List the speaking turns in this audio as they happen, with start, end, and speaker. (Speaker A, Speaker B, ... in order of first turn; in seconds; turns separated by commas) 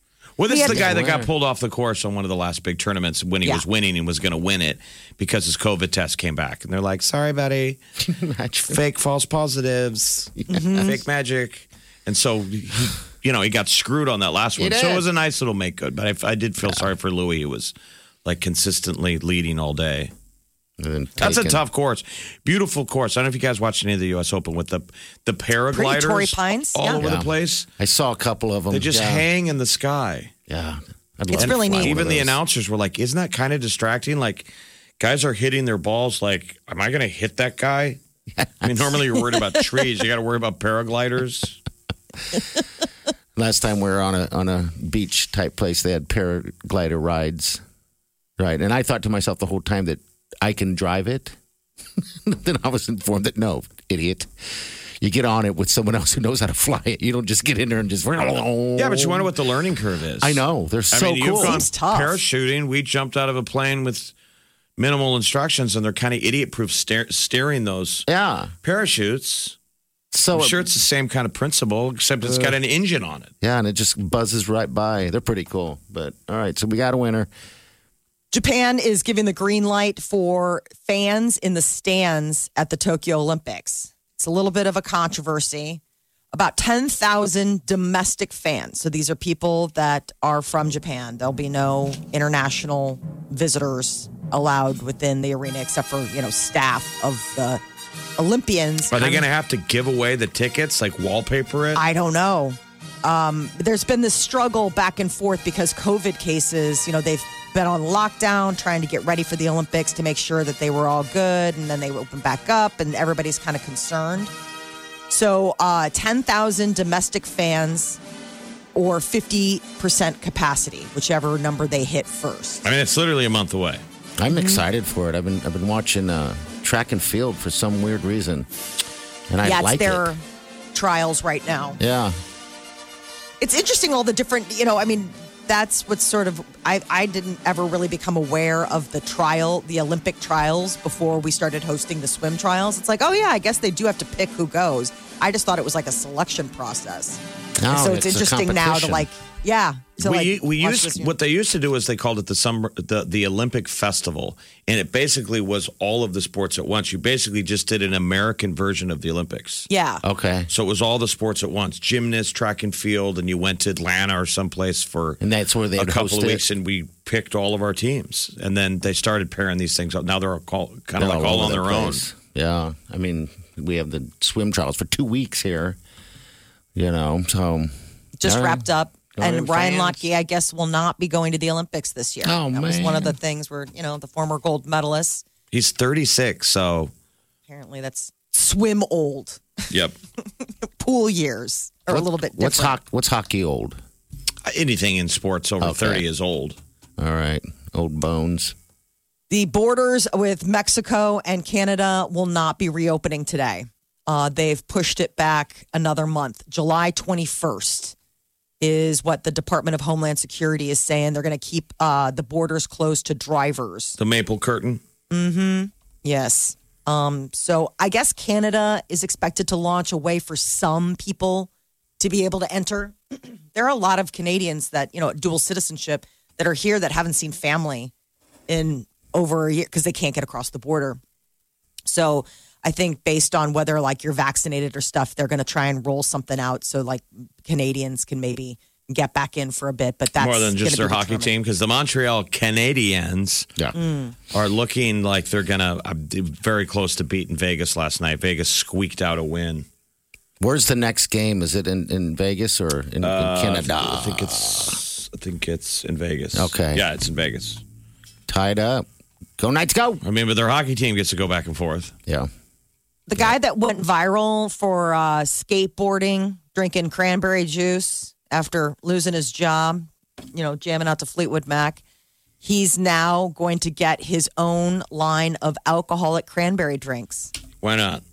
Speaker A: 0.4-7.8, Speaker B: 0.5-0.9, Speaker C: 0.6-1.3, Speaker C: 8.0-8.8, Speaker A: 8.7-17.7, Speaker C: 10.4-10.7, Speaker B: 10.5-11.0, Speaker C: 14.6-15.1, Speaker C: 16.6-16.9, Speaker A: 18.2-20.1, Speaker C: 20.8-21.6, Speaker A: 21.2-27.7, Speaker B: 25.7-27.0, Speaker C: 27.0-29.2, Speaker A: 28.7-30.3, Speaker C: 30.5-32.4, Speaker B: 31.3-32.0, Speaker A: 31.3-34.5, Speaker A: 35.0-38.0, Speaker C: 38.4-39.0, Speaker A: 38.6-41.6, Speaker C: 43.4-47.6, Speaker C: 48.4-51.4, Speaker C: 52.0-54.3, Speaker C: 55.0-59.3, Speaker A: 58.8-64.1, Speaker C: 60.2-61.6, Speaker B: 61.3-62.2, Speaker A: 64.8-68.0, Speaker C: 68.1-68.5, Speaker A: 68.6-69.6, Speaker C: 70.1-70.7, Speaker A: 70.3-73.3, Speaker C: 72.2-72.5, Speaker C: 73.4-77.3, Speaker B: 78.3-85.8, Speaker B: 86.3-97.6, Speaker B: 98.2-99.2, Speaker A: 98.9-101.8, Speaker B: 101.7-114.3, Speaker B: 115.1-118.0, Speaker B: 118.7-122.6, Speaker A: 122.6-123.8, Speaker C: 124.2-128.5, Speaker B: 124.3-124.6, Speaker C: 129.3-130.1, Speaker B: 129.4-130.2, Speaker B: 130.7-131.8, Speaker C: 131.8-132.2, Speaker B: 133.4-151.1, Speaker C: 147.6-149.1, Speaker A: 150.0-159.7, Speaker B: 159.7-160.0, Speaker C: 160.0-160.5, Speaker A: 160.5-165.2, Speaker C: 165.2-166.4, Speaker A: 165.8-172.0, Speaker C: 171.0-175.8, Speaker C: 176.7-177.7, Speaker B: 178.2-185.2, Speaker C: 178.2-178.6, Speaker C: 179.1-180.0, Speaker C: 182.2-183.1, Speaker A: 185.5-186.9, Speaker B: 187.5-189.4, Speaker A: 189.7-189.9, Speaker B: 190.8-192.7, Speaker C: 191.9-193.8, Speaker A: 194.4-196.6, Speaker C: 195.6-196.0, Speaker C: 197.0-198.5, Speaker B: 199.3-207.9, Speaker B: 208.6-214.0, Speaker A: 214.0-214.8, Speaker B: 215.1-227.9, Speaker B: 228.5-231.0, Speaker B: 231.8-241.3, Speaker A: 240.2-243.5, Speaker B: 243.7-244.1, Speaker A: 244.3-249.7, Speaker C: 250.4-254.8, Speaker A: 253.0-257.6, Speaker C: 256.3-256.8, Speaker C: 258.3-258.9, Speaker C: 259.4-260.0, Speaker A: 260.0-261.9, Speaker B: 263.1-271.8, Speaker B: 272.4-277.3, Speaker A: 277.6-278.0